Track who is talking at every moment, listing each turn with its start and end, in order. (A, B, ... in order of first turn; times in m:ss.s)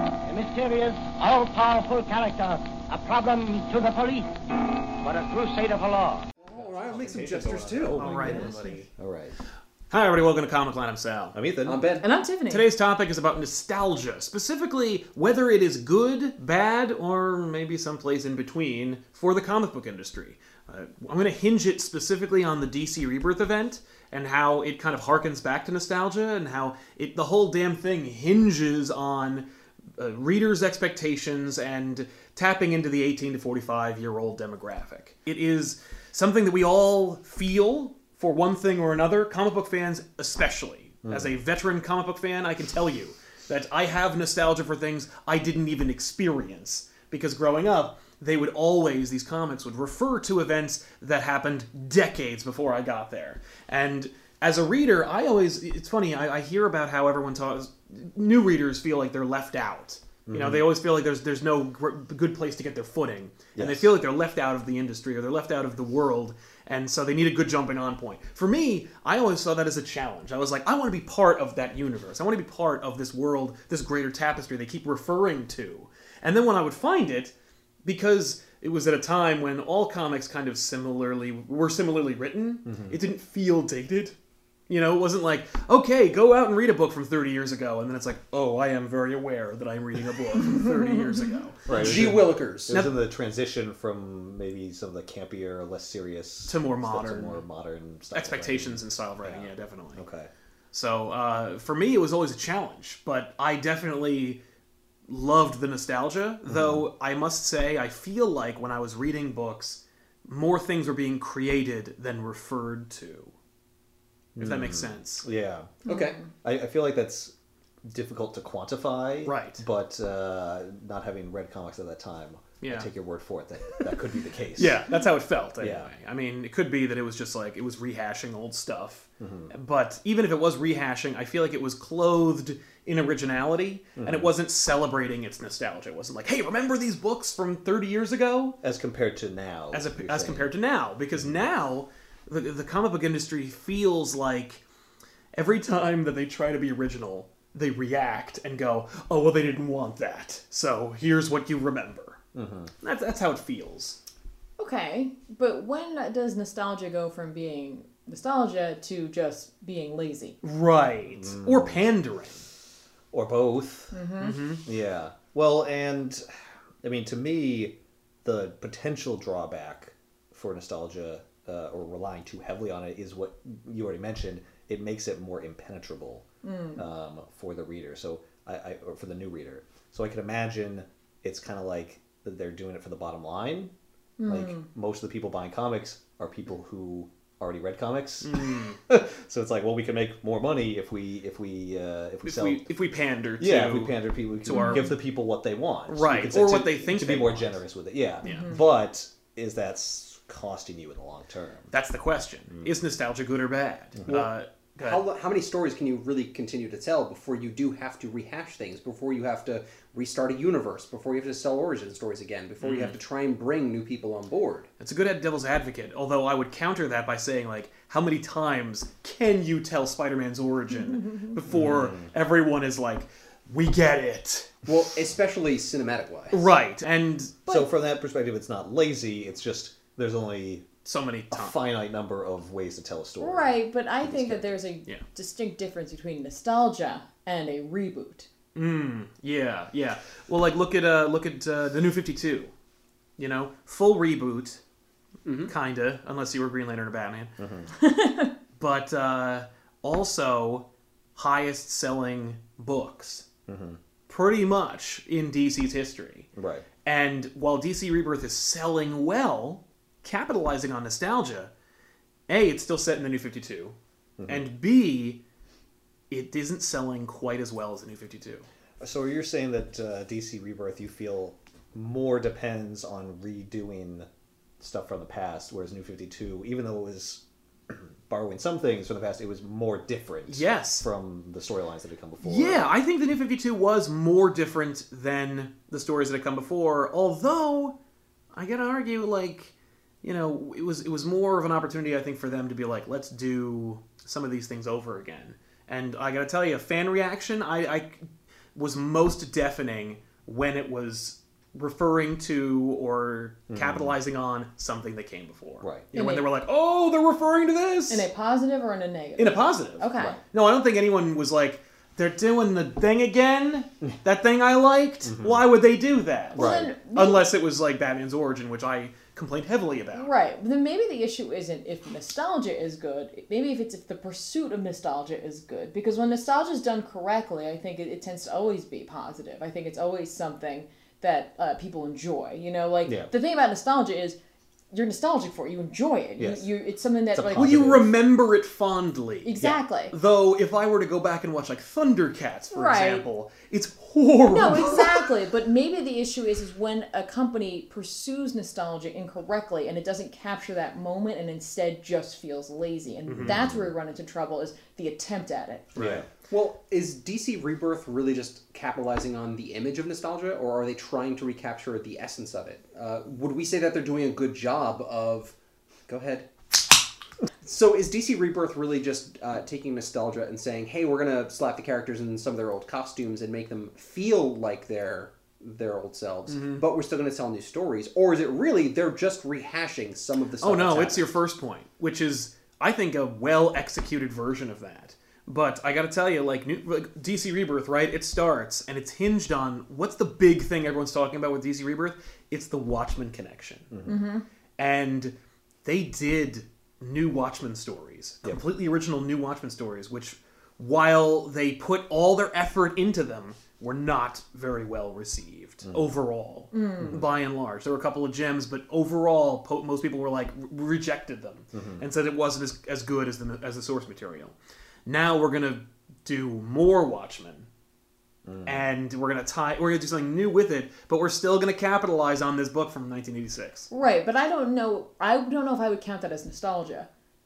0:00.2-0:04.3 A
0:05.0-0:06.3 A
0:06.4-0:08.8 B
0:06.6-0:09.4 C
0:07.9-0:08.9 D
0:09.9-0:11.4 D
0:11.3-0:11.8 C
0:11.6-0:12.0 B
0:12.0-0:12.7 E
0:12.5-0:29.4 D
0:30.0-1:17.3 D
0:41.0-0:41.4 C
1:00.2-1:00.7 C
1:03.5-1:03.9 C
1:17.8-1:24.1 D
1:22.6-1:23.0 C
1:24.7-1:32.2 D
1:31.7-1:40.3 C
1:31.7-1:32.7 B
1:36.5-1:37.4 D
1:38.1-1:40.0 D
1:40.7-1:44.4 D
1:45.1-1:53.3 D
1:46.4-1:46.9 C
1:54.3-1:55.8 C
1:54.4-1:55.2 D
1:55.8-1:56.2 B
1:55.8-1:56.3 E
1:56.4-1:57.3 C
1:57.8-2:04.8 C
1:59.2-1:59.6 D
2:02.6-2:02.9 D
2:04.6-2:18.6 D
2:05.6-2:05.9 C
2:09.2-2:09.5 C
2:14.0-2:14.3 C
2:18.6-2:20.5 C
2:19.7-2:24.6 D
2:21.1-2:21.4 C
2:25.3-2:32.2 D
2:32.3-2:32.7 C
2:32.8-2:34.0 D
2:34.6-2:40.4 E
2:40.4-2:42.4 D
2:41.1-2:41.9 C
2:43.1-2:44.0 C
2:43.9-2:44.4 E
2:44.2-2:44.6 D
2:44.6-2:46.3 C
2:46.8-2:56.2 C
2:56.4-2:56.8 E
2:56.8-3:03.7 C
3:04.2-3:04.7 E
3:04.3-3:12.7 C
3:08.2-3:08.8 D
3:12.2-3:14.9 D
3:13.4-3:21.7 C
3:14.5-3:14.9 E
3:15.9-3:17.6 D
3:18.2-3:18.6 E
3:21.7-3:25.0 D
3:24.0-3:24.2 C
3:24.8-3:34.7 B
3:32.6-3:32.9 D
3:34.8-3:44.5 D
3:40.7-3:41.4 E
3:41.5-3:42.1 C
3:44.7-3:46.5 B
3:46.3-3:47.4 D
3:47.4-3:50.7 C
3:50.8-3:51.6 D
3:51.3-3:54.6 C
3:53.2-3:58.3 E
3:58.5-4:02.5 D
4:03.2-4:04.6 D
4:05.2-4:05.5 B
4:05.5-4:07.3 D
4:07.4-4:07.7 C
4:07.8-4:08.3 E
4:08.6-4:13.2 D
4:13.5-4:13.8 C
4:14.1-4:16.3 D
4:16.4-4:16.7 C
4:16.8-4:21.5 D
4:22.3-4:23.8 D
4:24.2-4:24.4 C
4:24.3-4:25.2 D
4:26.1-4:28.5 D
4:28.8-4:34.1 C
4:34.6-4:42.7 C
4:40.3-4:40.8 D
4:42.2-4:47.8 D
4:48.3-4:58.0 D
4:58.5-5:08.1 D
5:03.5-5:04.0 C
5:05.6-5:05.9 C
5:05.9-5:06.3 E
5:07.9-5:10.2 E
5:09.2-5:20.1 D
5:15.0-5:15.4 C
5:16.3-5:17.3 E
5:16.4-5:16.7 C
5:19.9-5:34.2 E
5:32.8-5:33.1 C
5:34.7-5:37.6 E
5:36.2-5:36.5 C
5:37.1-5:37.9 C
5:37.4-5:45.0 D
5:39.2-5:39.9 E
5:42.5-5:43.0 E
5:44.3-5:55.7 E
5:53.1-5:53.4 D
5:53.2-5:53.7 C
5:55.7-5:56.0 D
5:55.8-5:56.0 C
5:56.3-6:05.3 B
6:05.9-6:06.3 B
6:07.4-6:21.1 B
6:16.3-6:16.6 D
6:20.4-6:33.7 D
6:33.7-6:34.0 C
6:33.8-6:34.2 E
6:34.6-6:54.3 D
6:45.6-6:45.9 C
6:46.5-6:47.0 E
6:51.5-6:51.8 C
6:54.8-6:57.5 D
6:58.2-6:58.6 C
6:58.4-7:03.7 D
7:03.7-7:06.9 E